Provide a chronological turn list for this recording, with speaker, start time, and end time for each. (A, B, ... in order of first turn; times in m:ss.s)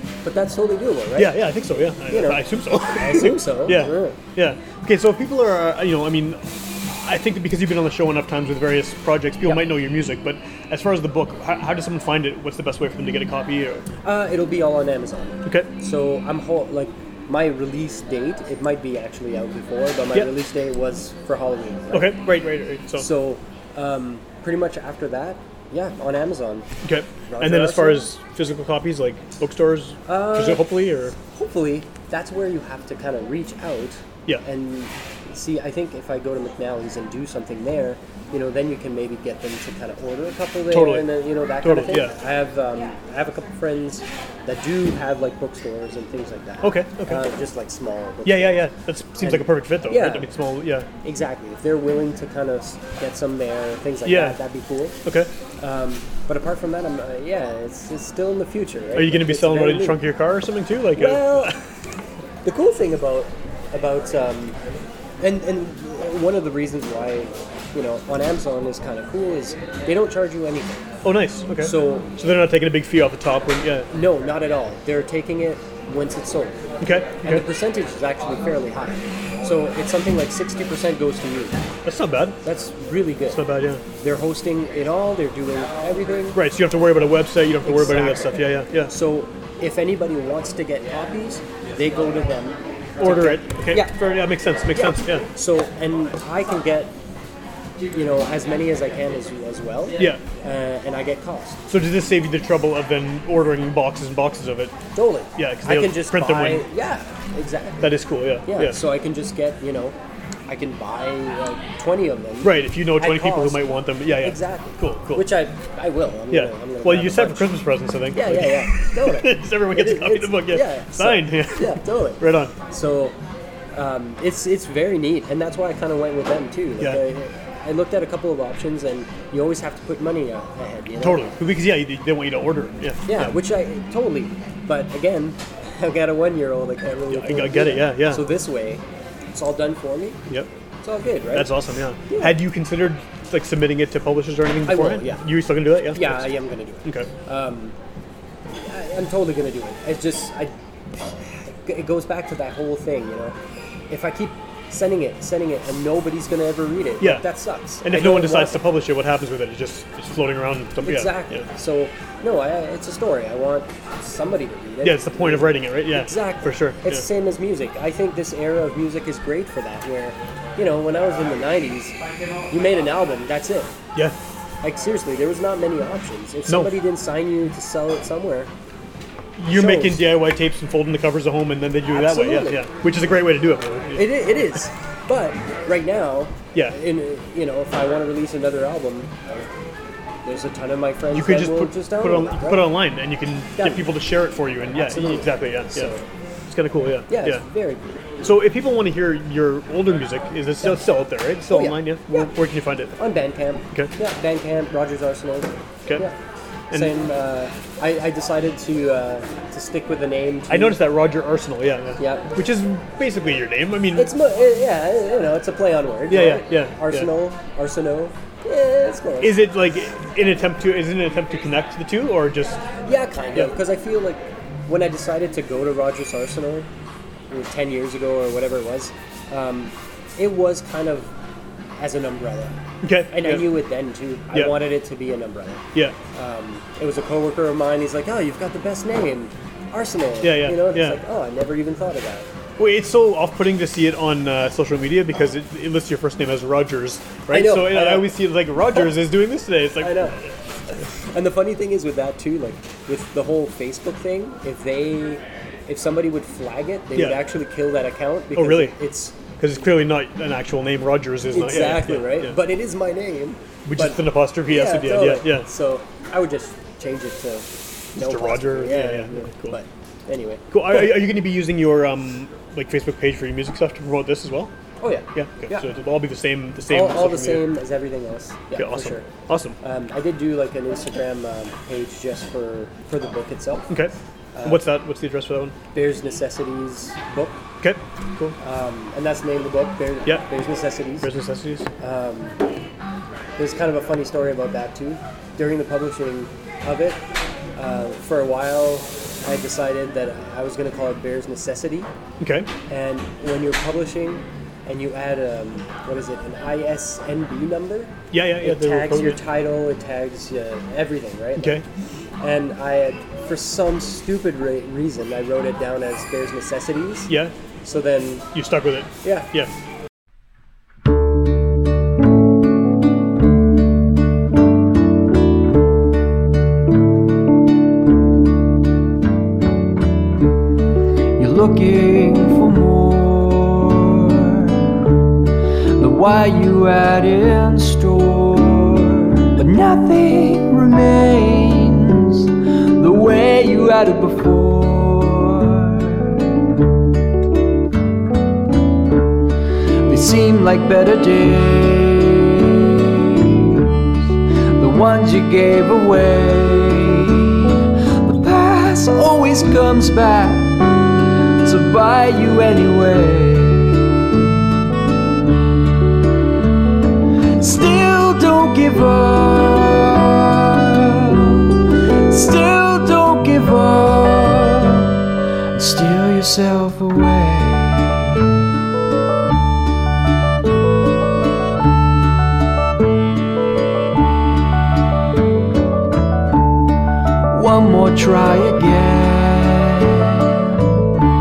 0:00.2-0:01.4 A
0:01.2-0:13.9 B
0:02.1-0:04.2 A
0:14.0-0:22.2 A
0:21.9-0:23.1 B
0:22.9-0:26.7 A
0:26.8-0:31.1 B
0:27.3-0:28.0 A
0:30.0-0:48.7 A
0:40.7-0:41.1 B
0:41.6-0:42.1 B
0:46.6-0:47.3 B
0:48.2-0:50.9 B
0:49.2-0:50.3 A
0:51.0-0:55.0 A
0:54.0-0:54.4 B
0:55.0-0:55.3 B
0:55.6-1:00.0 A
0:58.9-1:01.5 B
1:00.9-1:01.6 A
1:02.4-1:04.6 A
1:05.2-1:10.8 A
1:11.0-1:13.9 B
1:11.6-1:12.1 A
1:13.9-1:16.6 A
1:16.8-1:17.4 B
1:17.2-1:21.7 A
1:21.8-1:22.4 B
1:22.4-1:26.4 A
1:23.3-1:23.8 B
1:26.3-1:28.9 B
1:27.6-1:34.0 A
1:33.0-1:35.3 B
1:34.7-1:36.9 A
1:37.9-1:41.6 A
1:40.0-1:40.2 B
1:41.7-1:44.8 B
1:44.9-1:57.6 A
1:45.4-1:46.6 B
1:47.8-1:48.8 B
1:52.4-1:55.2 B
1:56.3-2:02.6 B
1:58.1-2:03.2 A
2:03.7-2:11.3 A
2:11.0-2:13.3 B
2:13.1-2:20.2 A
2:17.1-2:18.2 B
2:20.8-2:21.5 A
2:21.3-2:26.3 B
2:22.1-2:22.4 A
2:24.6-2:25.2 A
2:25.9-2:27.8 A
2:26.8-2:27.1 B
2:28.5-2:33.4 A
2:33.9-2:38.6 A
2:37.8-2:41.4 B
2:40.8-2:53.8 A
2:44.8-2:47.0 B
2:54.6-2:58.5 A
2:56.5-2:56.8 B
2:59.4-3:04.0 B
2:59.5-3:00.1 A
3:01.9-3:02.7 A
3:03.9-3:09.5 A
3:10.2-3:12.7 A
3:11.1-3:15.9 B
3:13.6-3:13.9 A
3:14.7-3:16.0 A
3:16.5-3:17.4 B
3:17.1-3:18.0 A
3:18.2-3:23.0 B
3:21.5-3:22.3 A
3:23.0-3:26.2 A
3:26.7-3:27.1 B
3:26.7-3:30.8 A
3:30.5-3:34.1 B
3:32.0-3:32.3 A
3:33.9-3:39.4 A
3:36.1-3:37.1 B
3:39.2-3:42.6 B
3:42.8-3:46.7 A
3:47.3-3:51.1 A
3:51.8-4:02.3 A
3:52.8-3:53.5 B
4:00.2-4:01.0 B
4:02.6-4:10.3 B
4:07.3-4:08.1 A
4:09.8-4:19.3 A
4:16.9-4:17.2 B
4:18.3-4:18.8 B
4:19.3-4:22.4 B
4:21.3-4:30.9 A
4:23.6-4:25.5 B
4:28.0-4:29.6 B
4:30.5-4:34.5 B
4:34.8-4:35.7 A
4:35.1-4:37.5 B
4:36.7-4:39.1 A
4:38.5-4:39.6 B
4:39.6-4:43.7 A
4:44.3-4:44.6 A
4:44.4-4:45.5 B
4:45.7-4:47.4 A
4:47.6-4:48.4 B
4:48.4-4:51.1 A
4:51.0-4:51.7 B
4:51.8-4:52.4 A
4:53.4-4:57.0 A
4:57.6-5:01.9 A
5:02.2-5:02.5 B
5:02.7-5:11.6 A
5:08.1-5:09.2 B
5:11.4-5:11.6 B
5:12.2-5:17.1 A
5:17.6-5:18.3 A
5:18.3-5:19.5 B
5:19.0-5:19.3 A
5:31.2-5:46.4 C
5:49.8-6:04.2 C
6:07.4-6:15.0 C
6:15.5-6:18.3 C
6:27.3-6:30.6 C